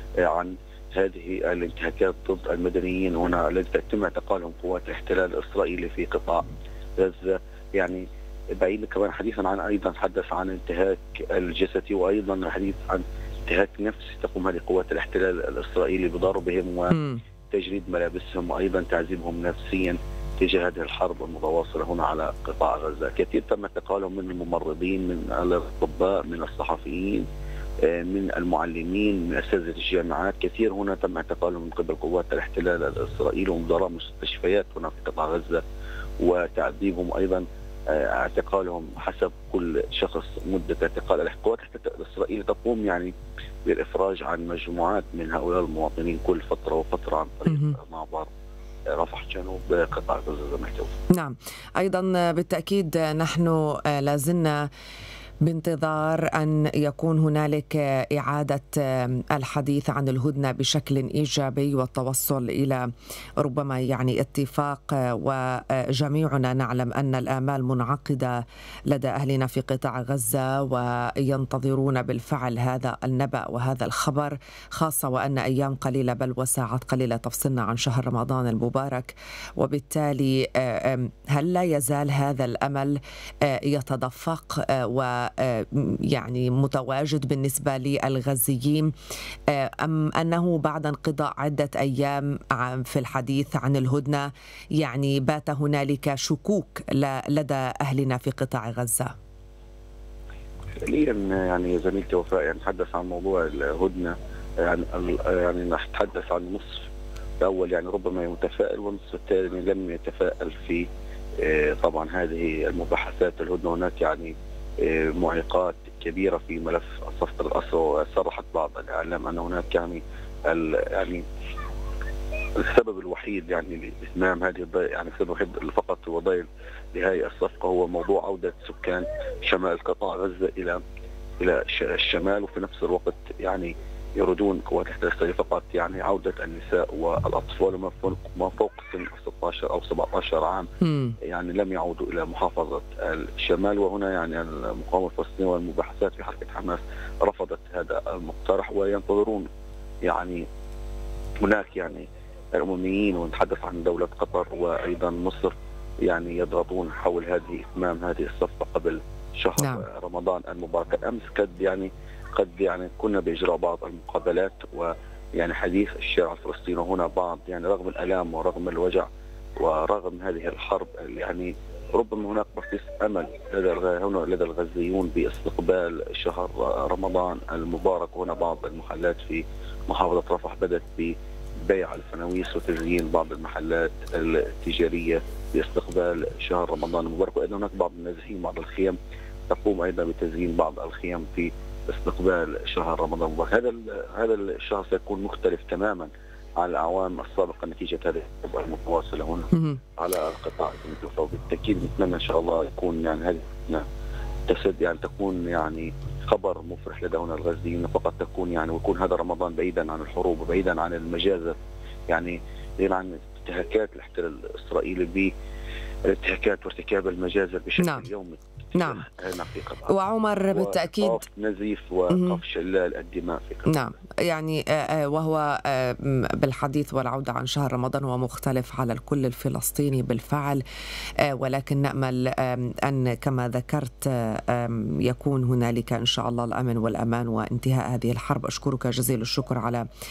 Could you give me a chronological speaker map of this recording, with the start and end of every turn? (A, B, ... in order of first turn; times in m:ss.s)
0:00.2-0:06.4 A
0:07.0-0:17.0 A
0:16.9-0:17.2 B
0:17.5-0:27.3 A
0:27.8-0:35.6 A
0:36.2-0:43.1 A
0:43.6-0:48.3 A
0:47.5-0:47.8 B
0:48.9-0:51.0 A
0:51.1-0:54.6 B
0:55.4-1:02.8 B
1:03.4-1:08.3 B
1:08.9-1:28.9 B
1:29.5-1:34.3 B
1:34.8-1:39.1 B
1:40.8-1:46.9 A
1:47.4-1:50.8 A
1:51.4-2:01.2 A
2:02.6-2:10.8 A
2:11.4-2:20.7 A
2:20.8-2:21.2 B
2:21.2-2:29.5 A
2:30.0-2:30.4 A
2:31.4-2:35.5 A
2:36.0-2:49.1 A
2:39.6-2:39.8 B
2:49.6-3:09.0 A
3:09.5-3:23.8 A
3:19.5-3:19.8 B
3:24.5-3:31.6 A
3:32.1-3:35.3 A
3:36.1-3:40.0 A
3:37.8-3:38.1 B
3:38.8-3:39.0 B
3:39.9-3:41.2 B
3:40.5-3:43.8 A
3:42.1-3:42.4 B
3:43.7-3:50.6 B
3:51.2-3:59.8 B